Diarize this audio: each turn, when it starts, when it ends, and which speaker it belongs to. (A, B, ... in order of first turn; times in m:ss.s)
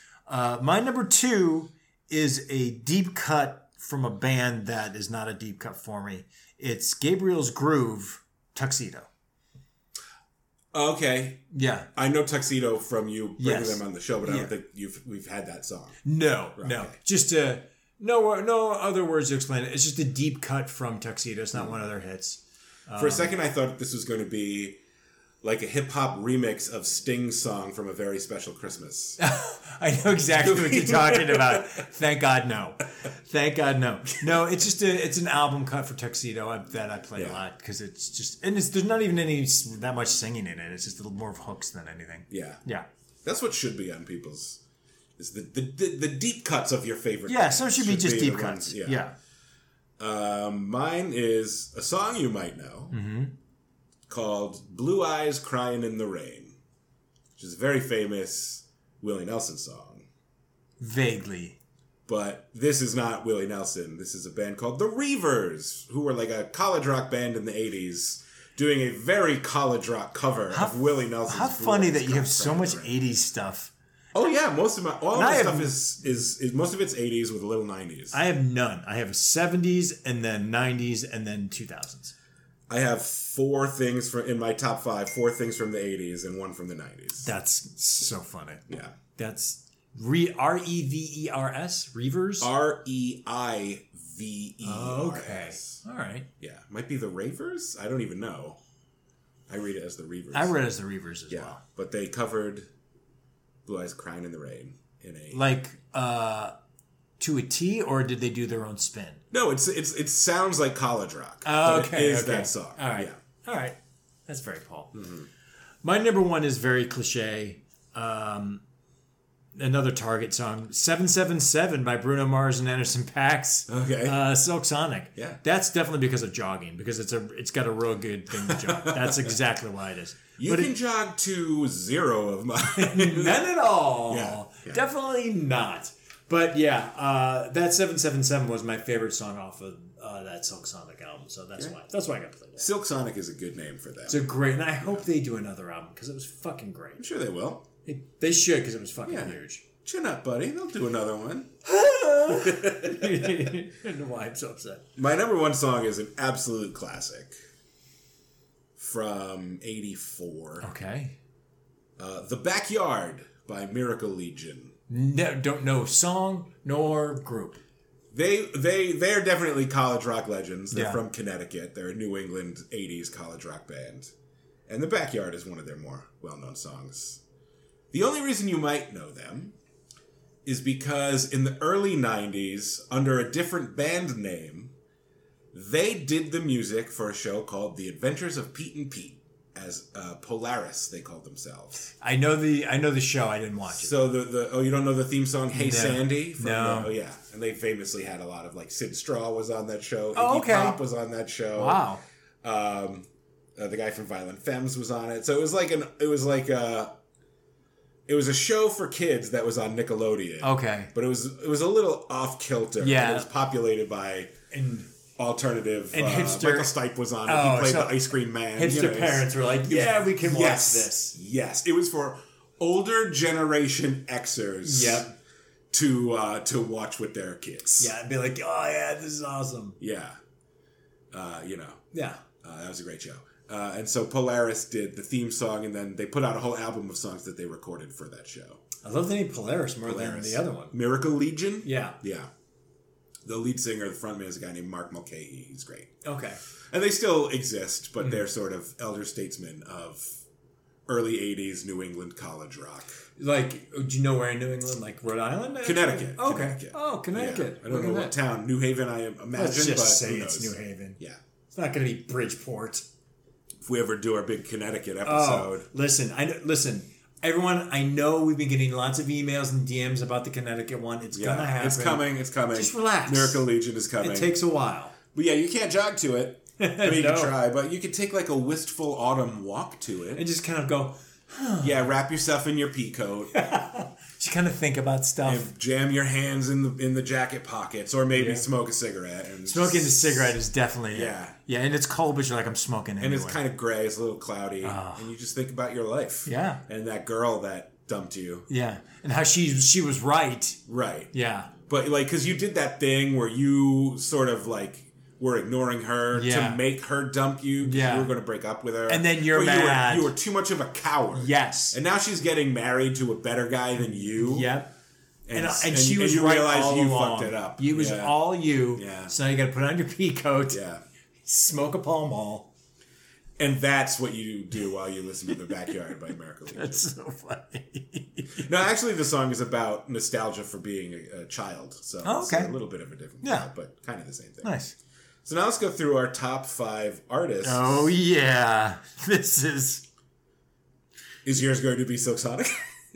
0:00.3-0:09.1 A
0:10.7-0:16.0 B
0:11.5-0:11.9 A
0:13.4-0:14.5 A
0:16.0-0:23.4 A
0:16.6-0:17.0 B
0:23.0-0:24.8 B
0:25.4-0:29.2 B
0:29.2-0:42.9 A
0:30.4-0:31.8 B
0:37.2-0:37.4 B
0:42.3-0:42.6 B
0:43.2-0:44.6 B
0:45.2-0:49.0 B
0:47.3-0:49.2 A
0:50.0-0:53.0 B
0:52.9-0:53.3 A
0:54.1-0:56.6 B
0:57.4-1:00.1 B
1:00.8-1:01.6 A
1:02.0-1:13.0 B
1:10.5-1:13.7 A
1:14.1-1:18.2 B
1:15.1-1:15.8 A
1:18.1-1:22.2 A
1:22.7-1:27.3 B
1:27.2-1:28.6 A
1:28.7-1:29.0 B
1:29.2-1:32.5 A
1:32.4-1:35.8 B
1:34.6-1:36.3 A
1:36.4-1:38.6 B
1:39.5-1:40.6 B
1:40.3-1:41.6 A
1:41.3-1:42.7 B
1:43.7-1:45.4 B
1:45.3-1:46.6 A
1:47.2-1:49.2 A
1:49.3-1:53.2 B
1:51.4-1:55.0 A
1:54.9-1:55.3 B
1:55.8-1:58.6 A
1:59.6-2:10.7 A
2:03.7-2:04.2 B
2:08.4-2:09.4 B
2:10.4-2:13.5 B
2:12.8-2:22.7 A
2:14.1-2:14.8 B
2:22.6-2:24.2 B
2:24.1-2:27.0 A
2:27.0-2:27.7 B
2:27.8-2:29.6 A
2:29.0-2:31.5 B
2:31.6-2:34.8 A
2:32.3-2:33.5 B
2:35.0-2:37.3 B
2:38.8-2:40.7 B
2:40.6-2:41.2 A
2:42.0-2:44.8 B
2:44.9-2:47.6 A
2:48.1-2:54.1 B
2:50.7-2:51.0 A
2:54.7-2:57.2 B
2:57.9-2:59.6 B
3:00.4-3:04.7 B
3:05.5-3:11.9 B
3:12.0-3:14.0 A
3:13.7-3:21.8 B
3:15.5-3:16.9 A
3:20.2-3:20.8 A
3:21.5-3:22.0 A
3:22.4-3:27.0 B
3:28.1-3:34.3 B
3:30.4-3:30.9 A
3:32.8-3:33.3 A
3:34.5-3:34.9 A
3:35.2-3:45.0 B
3:35.9-3:36.7 A
3:37.2-3:41.2 A
3:44.6-3:45.1 A
3:45.7-3:47.9 B
3:47.8-3:49.8 A
3:49.8-3:50.2 B
3:51.1-3:51.8 B
3:51.9-3:52.2 A
3:52.4-3:58.6 B
3:58.8-4:00.8 A
3:59.9-4:02.3 B
4:01.6-4:02.0 A
4:03.2-4:06.0 B
4:06.0-4:06.4 A
4:06.7-4:10.2 B
4:10.9-4:13.0 B
4:13.2-4:18.1 A
4:15.6-4:21.2 B
4:19.3-4:21.0 A
4:21.5-4:22.9 A
4:23.6-4:25.7 B
4:25.0-4:33.4 A
4:31.1-4:34.4 B
4:34.0-4:35.0 A
4:35.1-4:40.2 B
4:36.6-4:37.4 A
4:40.2-4:41.9 A
4:41.6-4:43.5 B
4:43.3-4:45.5 A
4:45.2-4:50.4 B
4:48.1-4:48.5 A
4:49.4-4:53.4 A
4:50.9-4:51.4 B
4:53.0-4:58.5 B
4:54.6-4:55.1 A
4:56.2-4:56.6 A
4:58.5-5:00.6 A
5:00.7-5:14.5 B
5:01.1-5:01.5 A
5:06.1-5:06.6 A
5:07.6-5:08.1 A
5:08.9-5:10.1 A
5:11.1-5:11.8 A
5:13.8-5:14.7 A
5:15.3-5:19.1 B
5:15.3-5:20.6 A
5:20.5-5:20.8 B
5:21.2-5:22.5 A
5:23.4-5:26.9 B
5:26.5-5:28.5 A
5:28.4-5:34.5 B
5:32.0-5:32.6 A
5:33.2-5:33.5 A
5:34.4-5:34.7 A
5:35.2-5:37.9 B
5:37.4-5:39.8 A
5:41.2-5:42.6 B